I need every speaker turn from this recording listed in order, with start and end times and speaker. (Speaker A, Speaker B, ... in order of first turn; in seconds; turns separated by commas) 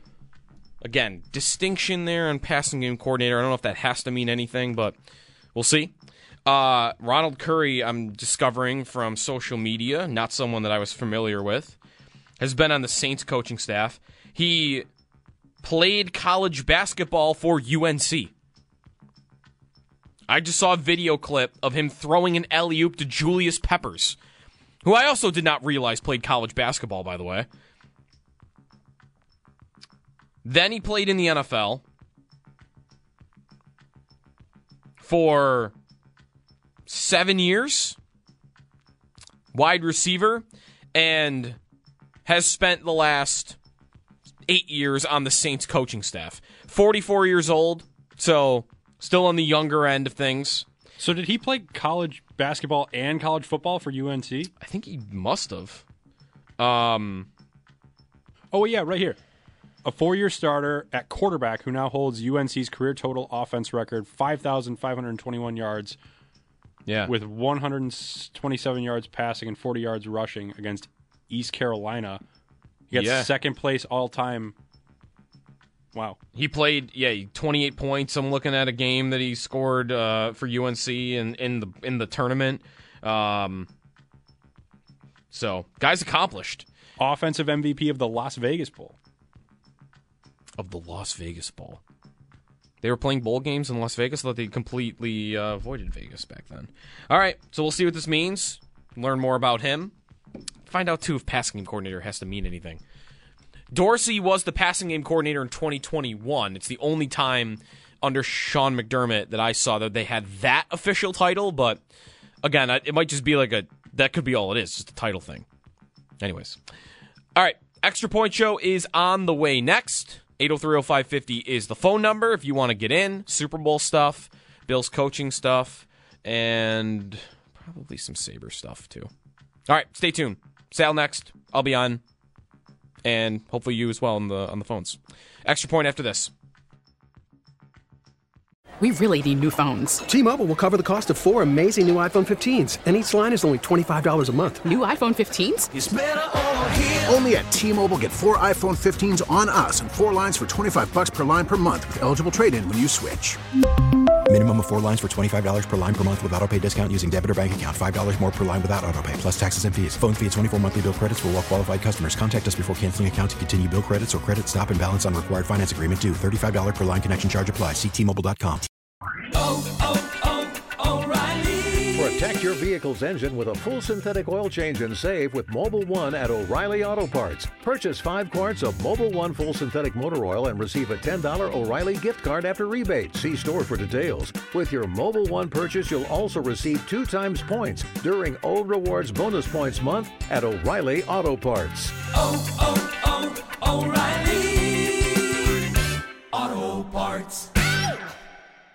Speaker A: 0.8-4.9, Speaker A: 5.5-5.9, Speaker A: 6.5-11.8, Speaker A: 12.4-14.9, Speaker A: 15.6-18.3, Speaker A: 20.3-24.2, Speaker A: 24.8-27.5, Speaker A: 30.4-31.8, Speaker A: 35.0-35.7, Speaker A: 36.9-38.0, Speaker A: 39.5-41.6, Speaker A: 42.2-43.5, Speaker A: 44.5-50.6, Speaker B: 51.0-54.5, Speaker A: 54.6-55.8, Speaker A: 56.6-57.3, Speaker B: 58.5-59.2, Speaker B: 59.8-66.0, Speaker A: 66.8-67.1, Speaker B: 67.0-72.2, Speaker B: 72.9-74.5, Speaker A: 72.9-73.3, Speaker A: 76.3-83.7, Speaker A: 85.3-86.7, Speaker B: 87.0-88.9, Speaker A: 90.6-91.8, Speaker A: 92.8-99.9, Speaker A: 100.7-102.8, Speaker A: 103.7-111.8, Speaker A: 112.4-115.5, Speaker A: 116.2-116.6, Speaker A: 117.3-129.1, Speaker A: 129.7-132.0, Speaker A: 133.0-136.3, Speaker C: 138.8-140.0, Speaker D: 140.1-144.6, Speaker C: 144.7-145.7, Speaker E: 147.0-153.4, Speaker F: 154.3-168.7, Speaker G: 171.9-191.9, Speaker H: 192.6-194.9, Speaker H: 196.3-197.5